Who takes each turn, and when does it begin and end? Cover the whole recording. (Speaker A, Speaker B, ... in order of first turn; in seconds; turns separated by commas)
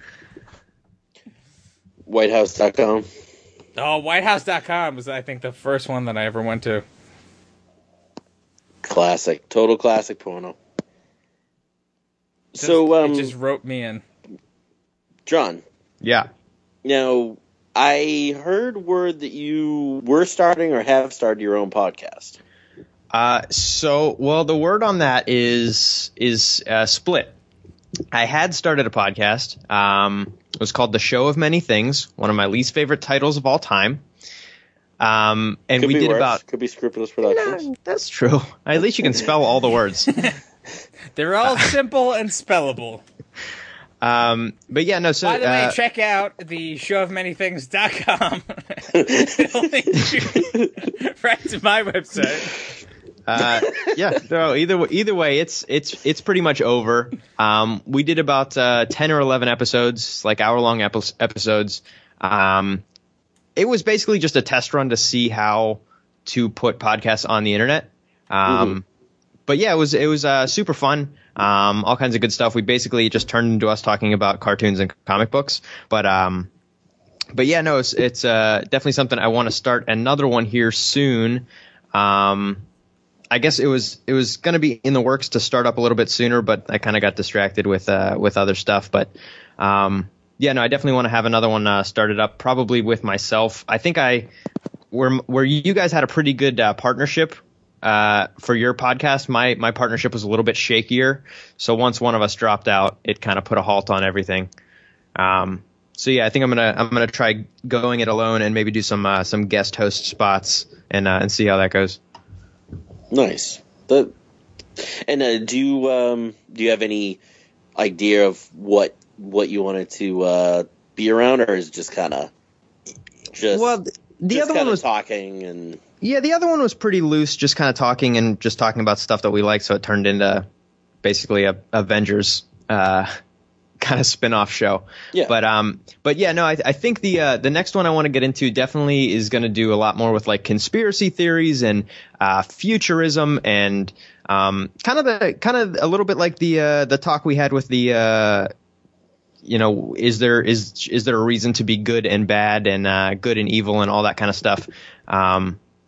Speaker A: 2.1-3.1, Speaker B: 3.8-6.8, Speaker A: 8.8-10.6, Speaker A: 12.6-13.3, Speaker B: 12.6-14.0, Speaker A: 15.3-15.6, Speaker C: 16.0-16.3, Speaker A: 16.8-22.4, Speaker C: 23.1-27.4, Speaker C: 28.1-34.0, Speaker C: 35.0-36.4, Speaker A: 35.8-37.6, Speaker C: 37.2-40.1, Speaker B: 41.2-43.0, Speaker C: 44.0-45.8, Speaker B: 45.2-52.6, Speaker A: 49.0-49.5, Speaker C: 53.3-62.8, Speaker C: 63.6-68.8, Speaker A: 68.5-68.8, Speaker C: 69.5-76.5, Speaker C: 77.3-82.6, Speaker C: 83.3-94.3, Speaker C: 94.9-104.5, Speaker C: 105.2-112.0, Speaker A: 113.1-114.1, Speaker A: 114.8-117.2, Speaker A: 117.8-122.3, Speaker A: 123.3-123.8, Speaker C: 123.5-124.8, Speaker A: 124.3-125.8, Speaker C: 126.0-130.4, Speaker C: 131.0-133.1, Speaker C: 133.8-148.5, Speaker C: 149.4-155.6